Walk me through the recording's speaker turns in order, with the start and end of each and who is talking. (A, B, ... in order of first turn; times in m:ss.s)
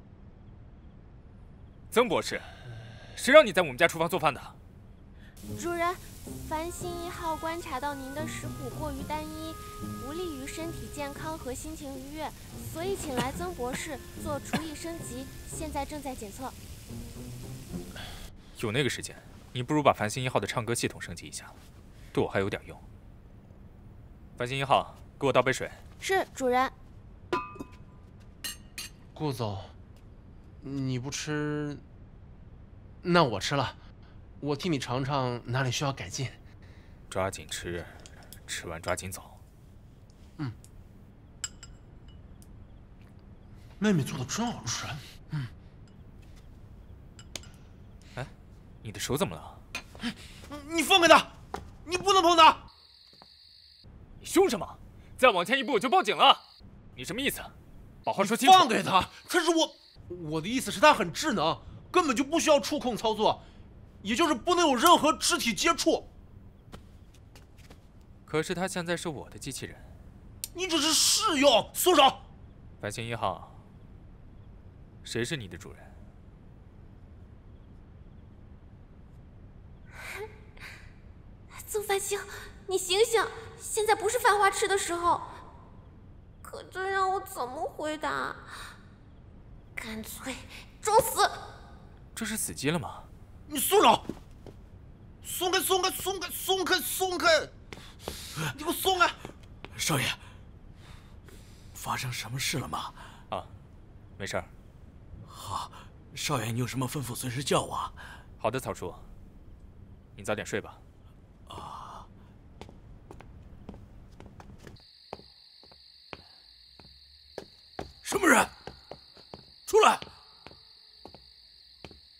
0:01.9-0:02.5 A
0:03.2-0:04.5 A
0:05.5-0:16.6 B
0:18.6-0:21.5 A
0:22.1-0:22.8 A
0:24.4-0:25.8 A
0:26.0-0:26.7 B
0:29.1-0:29.7 C
0:30.6-0:31.8 C
0:33.0-0:33.8 C
0:34.4-0:36.4 C
0:37.1-0:37.9 A
0:38.5-0:39.4 A
0:43.8-0:45.5 C
0:48.8-0:49.6 A
0:50.0-0:52.6 C
0:54.2-0:56.4 A
0:57.0-0:57.5 A
0:58.0-0:58.7 A
0:58.2-1:03.4 C
1:04.0-1:06.1 C
1:08.3-1:09.8 A
1:10.5-1:12.2 C
1:12.8-1:13.5 A
1:15.0-1:15.9 A
1:21.6-1:25.3 B
1:26.4-1:28.5 B
1:29.8-1:31.5 B
1:32.1-1:33.1 A
1:33.5-1:34.0 C
1:35.2-1:37.5 C
1:38.5-1:39.2 C
1:39.7-1:40.2 D
1:41.7-1:43.0 D
1:44.2-1:44.5 A
1:45.3-1:48.0 D
1:48.4-1:49.0 A
1:50.2-1:50.8 A
1:51.5-1:52.0 D
1:58.0-1:58.5 D
1:59.7-2:00.0 D